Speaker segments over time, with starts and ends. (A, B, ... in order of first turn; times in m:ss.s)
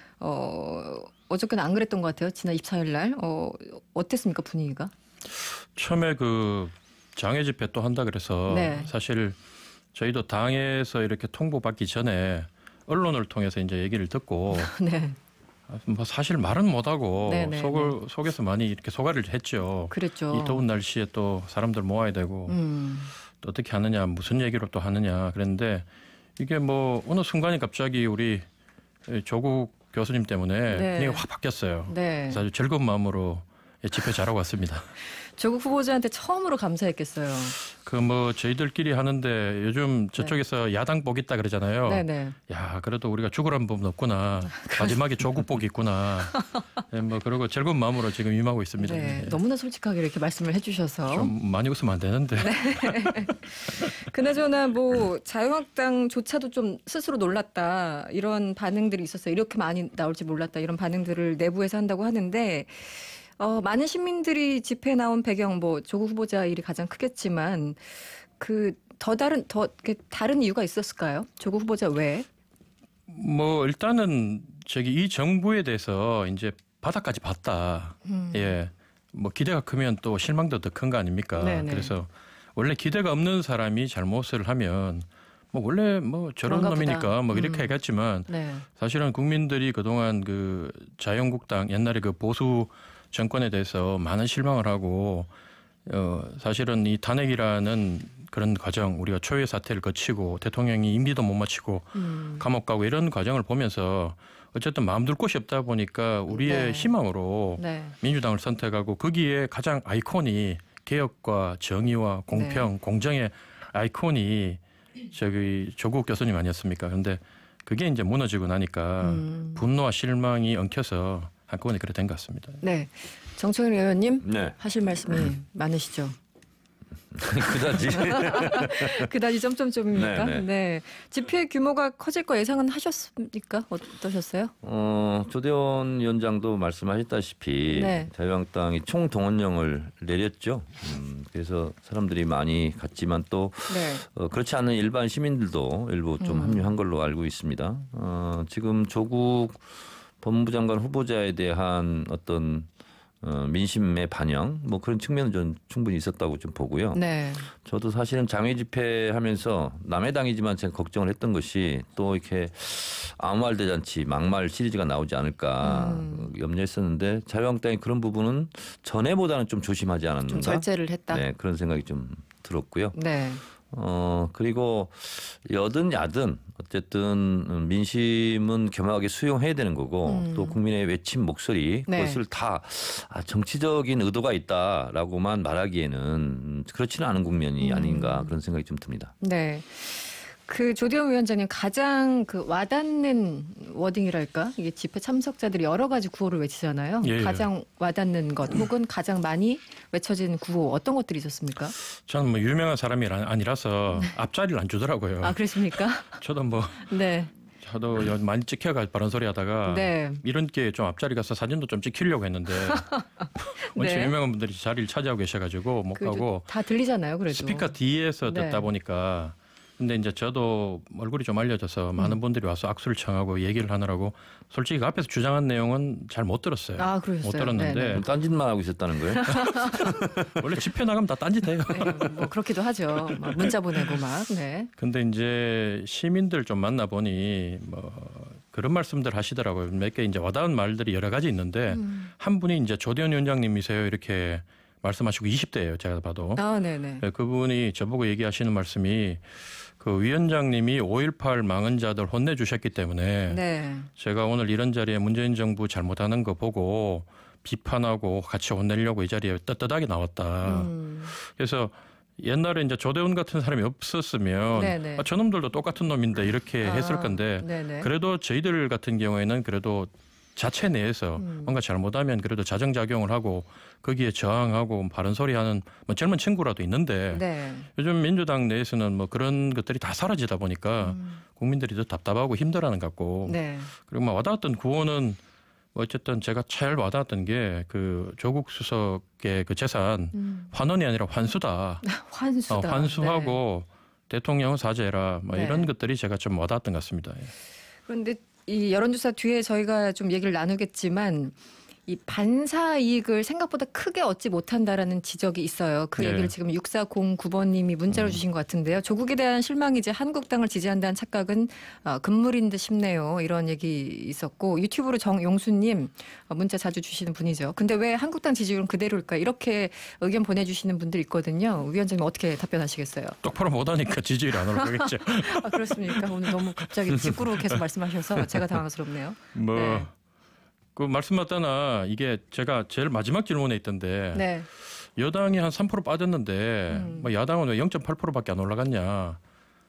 0:00.2-0:04.9 A
0:05.4-0:09.4 B
0:08.5-0:08.9 A
0:09.9-0:14.7 B
0:14.5-0:15.2 A
0:15.7-0:22.6 B
0:17.3-0:17.9 A
0:19.9-0:20.6 A
0:22.5-0:23.1 A
0:23.4-0:25.8 B
0:26.4-0:28.4 B
0:29.1-0:34.9 B
0:30.7-0:31.2 A
0:31.9-0:32.4 A
0:35.1-0:37.6 A
0:37.7-0:49.4 B
0:41.8-0:42.4 A
0:44.6-0:44.9 A
0:46.3-0:46.6 A
0:48.8-0:51.3 A
0:51.1-0:53.3 B
0:52.4-1:12.3 A
1:13.1-1:35.3 B
1:18.0-1:18.6 A
1:21.4-1:21.9 A
1:26.4-1:28.6 A
1:35.8-2:02.6 B
1:41.9-1:42.4 A
1:46.3-1:46.9 A
1:47.6-1:47.9 A
1:52.3-1:52.6 A
1:59.0-1:59.6 A
2:02.6-2:06.1 A
2:04.2-2:04.6 C
2:07.1-2:09.1 C
2:07.8-2:14.5 A
2:09.9-2:10.5 C
2:14.6-2:32.7 C
2:17.7-2:18.1 A
2:23.7-2:24.0 A
2:26.2-2:26.7 A
2:33.2-2:37.0 C
2:36.9-2:37.5 A
2:37.5-2:52.9 C
2:45.6-2:46.3 A
2:50.3-2:51.2 A
2:52.9-2:53.4 A
2:53.7-3:09.1 C
3:00.0-3:00.6 A
3:01.9-3:02.2 A
3:07.6-3:08.3 A
3:09.2-3:21.7 A
3:17.0-3:17.5 B
3:22.0-3:26.9 B
3:25.2-3:26.2 A
3:26.9-3:27.3 A
3:27.6-3:36.5 B
3:29.6-3:30.2 A
3:32.6-3:34.1 A
3:35.9-3:37.7 A
3:37.3-3:48.0 B
3:38.2-3:38.6 A
3:46.8-3:48.0 A
3:47.9-3:50.6 C
3:49.2-3:49.8 A
3:50.4-3:52.3 B
3:51.7-3:54.7 A
3:53.1-3:53.4 B
3:54.8-4:06.4 B
4:01.7-4:02.1 A
4:06.4-4:07.0 A
4:07.0-4:13.4 B
4:13.3-4:13.9 A
4:14.0-4:37.2 B
4:20.4-4:21.1 A
4:24.5-4:25.0 A
4:26.6-4:27.9 A
4:31.2-4:31.5 A
4:37.1-4:37.7 A
4:37.8-4:45.2 B
4:40.8-4:41.2 A
4:43.2-4:43.7 A
4:45.7-4:51.9 B
4:50.1-4:50.5 A
4:51.8-4:53.4 A
4:52.5-4:57.3 B
4:55.3-4:55.7 A
4:57.9-5:01.3 A
5:01.9-5:23.2 A
5:06.0-5:06.3 B
5:23.2-5:26.4 B
5:24.5-5:29.9 A
5:26.9-5:27.2 B
5:29.3-5:29.9 B
5:30.8-5:39.2 B
5:34.1-5:34.5 A
5:36.7-5:37.1 A